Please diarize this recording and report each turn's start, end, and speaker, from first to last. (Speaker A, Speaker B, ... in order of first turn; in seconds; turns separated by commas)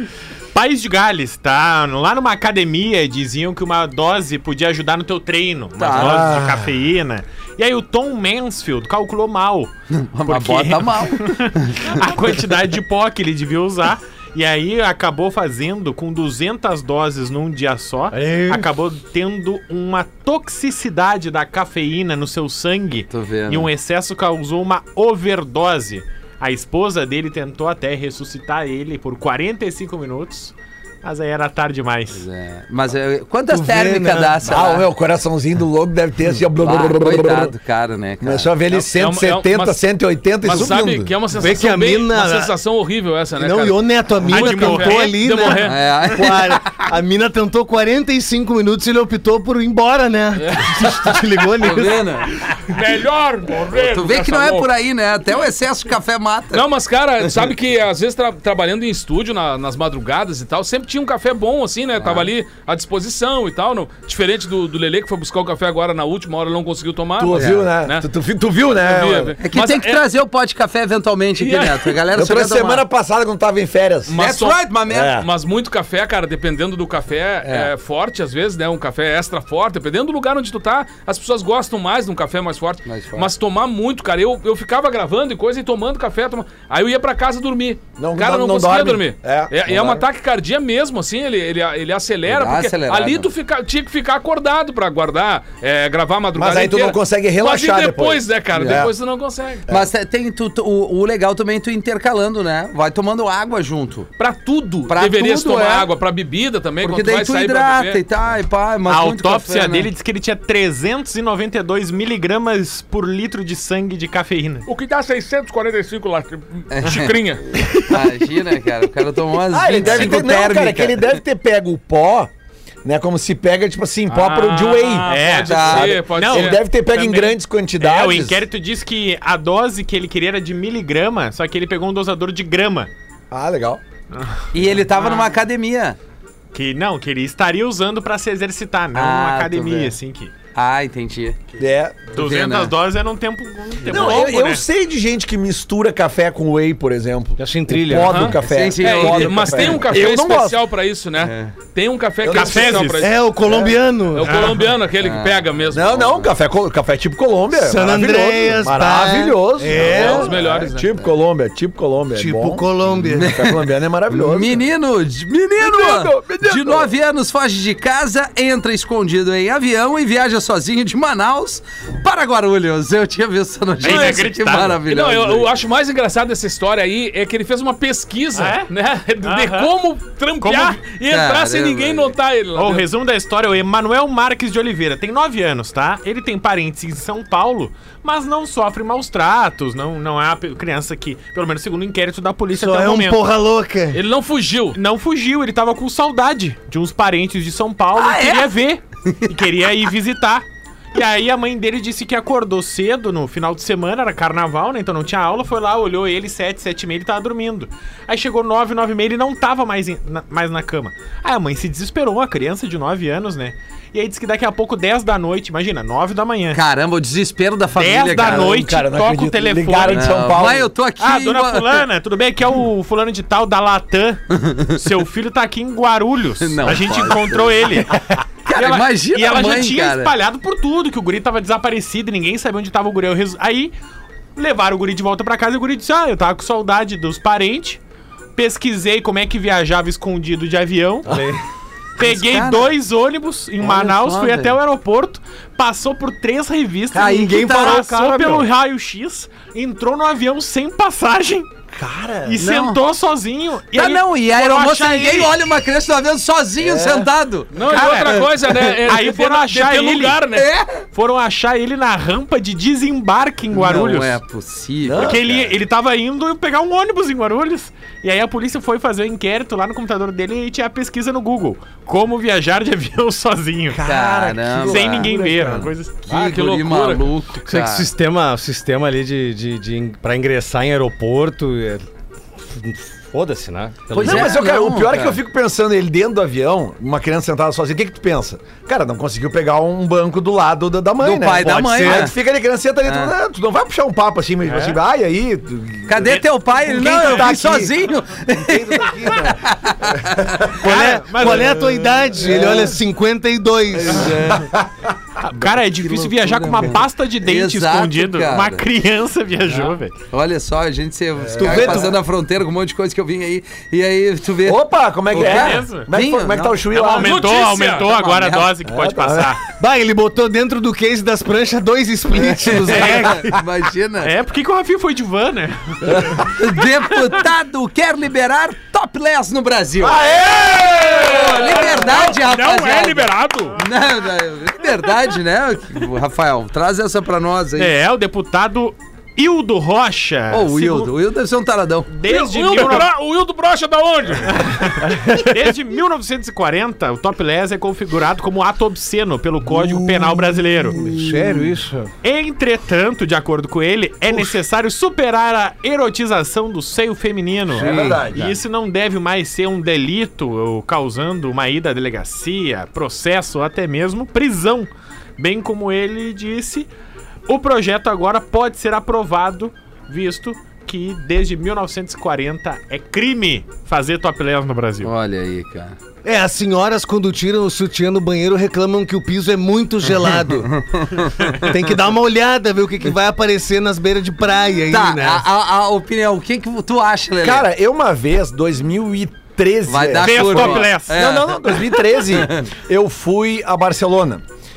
Speaker A: 0.5-9.7, Speaker B: 5.8-6.4, Speaker C: 6.0-6.6, Speaker B: 9.9-12.0, Speaker A: 10.3-32.2, Speaker D: 18.1-18.7, Speaker B: 23.1-23.7, Speaker B: 32.1-34.9, Speaker D: 33.5-34.5, Speaker C: 34.5-37.5, Speaker B: 36.6-38.5, Speaker C: 38.2-41.1, Speaker E: 38.7-39.8, Speaker E: 40.4-45.8, Speaker D: 41.3-42.5, Speaker D: 43.4-52.1, Speaker A: 44.2-45.6, Speaker B: 45.6-46.9, Speaker E: 50.4-51.1, Speaker B: 51.6-52.6, Speaker E: 52.6-54.7, Speaker B: 53.7-56.6, Speaker E: 56.5-68.0, Speaker B: 62.0-62.3, Speaker C: 67.2-69.3, Speaker B: 67.3-67.7, Speaker E: 68.7-70.0, Speaker B: 69.4-72.8, Speaker E: 71.4-71.9, Speaker C: 72.1-74.1, Speaker E: 74.1-99.6, Speaker B: 74.2-75.1, Speaker C: 74.9-75.3, Speaker B: 77.4-77.7, Speaker B: 82.8-83.3, Speaker C: 88.0-90.0, Speaker B: 92.2-93.3, Speaker C: 96.3-98.9, Speaker B: 98.5-98.9, Speaker B: 99.7-104.1, Speaker E: 104.2-108.0, Speaker B: 104.9-105.9, Speaker B: 106.8-109.9, Speaker A: 108.9-114.7, Speaker E: 114.7-117.6, Speaker B: 116.7-117.2, Speaker B: 117.8-121.2, Speaker C: 119.5-122.3, Speaker C: 122.8-128.4, Speaker E: 124.1-126.6, Speaker A: 125.1-132.9, Speaker B: 125.4-125.9, Speaker C: 133.3-133.8, Speaker A: 134.1-135.3, Speaker B: 134.5-136.0, Speaker A: 136.5-140.3, Speaker B: 138.9-139.9, Speaker B: 140.5-141.4, Speaker C: 141.6-142.0, Speaker B: 142.1-142.7, Speaker A: 142.1-144.6, Speaker C: 143.9-150.6, Speaker D: 147.4-148.3, Speaker E: 148.0-153.2, Speaker B: 148.4-149.8, Speaker B: 151.2-151.5, Speaker C: 152.2-152.9, Speaker A: 152.3-153.1, Speaker D: 153.0-154.5, Speaker C: 153.4-153.8, Speaker E: 154.1-156.3, Speaker A: 154.2-154.7, Speaker B: 155.0-155.4, Speaker C: 155.7-164.6, Speaker D: 157.5-160.4, Speaker E: 159.7-160.9, Speaker D: 162.1-163.4, Speaker B: 163.2-163.6, Speaker B: 164.1-175.5, Speaker C: 165.6-166.9, Speaker A: 173.8-174.8, Speaker E: 173.8-174.2, Speaker E: 174.8-182.9, Speaker A: 178.3-178.7, Speaker A: 179.2-179.7, Speaker A: 180.4-180.8, Speaker B: 181.1-182.1, Speaker A: 182.6-193.2, Speaker D: 192.5-194.0, Speaker E: 193.9-194.8, Speaker A: 194.7-216.6, Speaker B: 197.9-198.5, Speaker B: 216.5-218.6, Speaker A: 217.7-233.7, Speaker C: 218.2-220.7, Speaker B: 219.8-221.8, Speaker B: 226.4-227.8, Speaker B: 228.4-230.1, Speaker A: 234.3-237.8, Speaker A: 238.3-241.2, Speaker D: 241.1-241.4, Speaker A: 242.0-251.5, Speaker B: 242.0-242.7, Speaker B: 243.6-244.6, Speaker B: 246.9-247.8, Speaker D: 246.9-248.5, Speaker C: 251.7-252.4, Speaker A: 252.2-255.4, Speaker B: 252.4-252.8, Speaker B: 253.7-258.7, Speaker C: 256.6-257.1, Speaker E: 257.5-260.5, Speaker A: 257.7-258.2, Speaker A: 258.9-260.2, Speaker B: 260.4-260.8, Speaker A: 260.9-264.2, Speaker B: 263.5-265.2, Speaker C: 264.8-265.5, Speaker A: 265.0-273.8, Speaker C: 273.7-275.7, Speaker B: 273.8-275.1, Speaker A: 274.6-276.0, Speaker E: 276.1-277.1, Speaker B: 276.1-277.9, Speaker D: 277.5-281.9, Speaker D: 282.5-284.4, Speaker B: 283.9-285.2, Speaker C: 284.0-296.2, Speaker B: 291.0-292.1, Speaker D: 291.4-292.1, Speaker B: 292.8-293.1, Speaker A: 294.4-294.8, Speaker B: 295.9-300.4, Speaker C: 296.8-297.7, Speaker A: 296.9-297.4, Speaker D: 297.0-297.5, Speaker C: 298.5-299.4, Speaker D: 300.5-304.3, Speaker A: 300.6-302.0, Speaker C: 302.2-302.6, Speaker B: 303.7-304.5, Speaker C: 304.3-304.7, Speaker A: 305.2-309.9, Speaker B: 305.9-308.6, Speaker B: 310.1-316.6, Speaker C: 311.3-311.9, Speaker D: 311.4-311.9, Speaker C: 314.4-317.2, Speaker A: 315.1-315.9, Speaker A: 316.7-319.4, Speaker E: 316.9-317.9, Speaker B: 317.9-318.5, Speaker C: 318.6-319.4, Speaker D: 319.5-323.4, Speaker B: 322.1-324.1, Speaker A: 322.7-323.2, Speaker A: 324.0-326.4, Speaker B: 326.2-330.1, Speaker C: 329.8-331.3, Speaker E: 330.4-333.6, Speaker B: 330.8-337.7, Speaker A: 337.6-340.9, Speaker B: 340.3-341.9, Speaker A: 341.9-342.9, Speaker E: 342.0-344.8, Speaker A: 344.3-350.9, Speaker D: 349.5-351.9, Speaker A: 352.0-366.7, Speaker D: 357.5-358.1, Speaker C: 357.5-358.4, Speaker A: 367.3-374.9, Speaker B: 374.8-375.8, Speaker D: 376.0-380.8, Speaker B: 380.7-381.1, Speaker D: 381.4-385.2, Speaker B: 384.7-387.4, Speaker C: 387.2-394.2, Speaker B: 389.7-392.5, Speaker A: 390.0-391.0